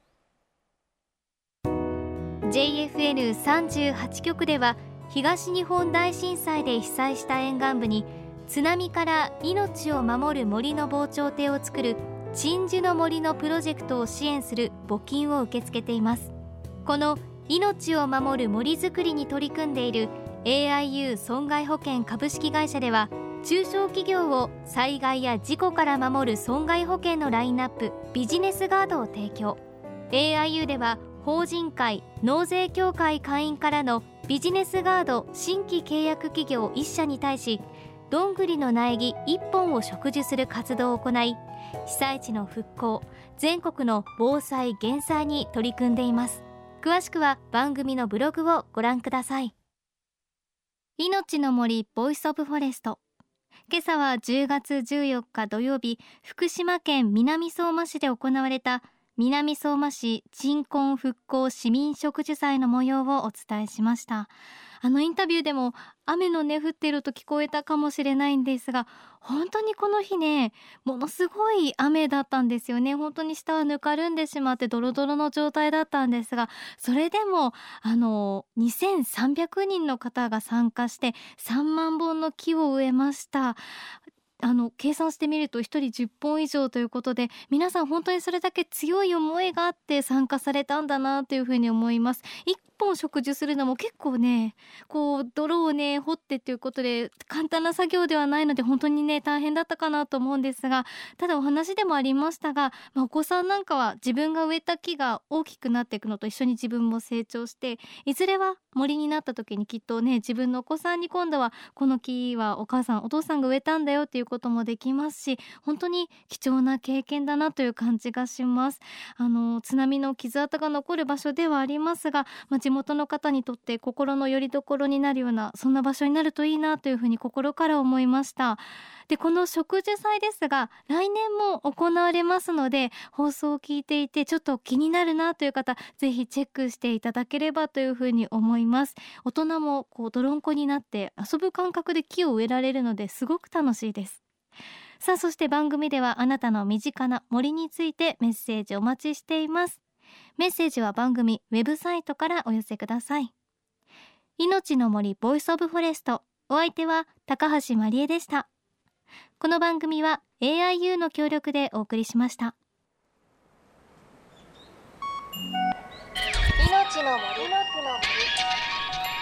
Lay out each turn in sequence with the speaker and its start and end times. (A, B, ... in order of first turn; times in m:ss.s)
0:02.4-0:16.3 A
0:16.8-0:49.5 A
0:51.0-0:53.0 A
0:53.7-1:23.6 A
1:24.4-2:24.2 A
2:25.0-2:29.8 A
2:30.4-2:33.3 A
2:34.4-2:38.5 A
2:39.4-2:42.6 A
2:46.6-2:48.3 A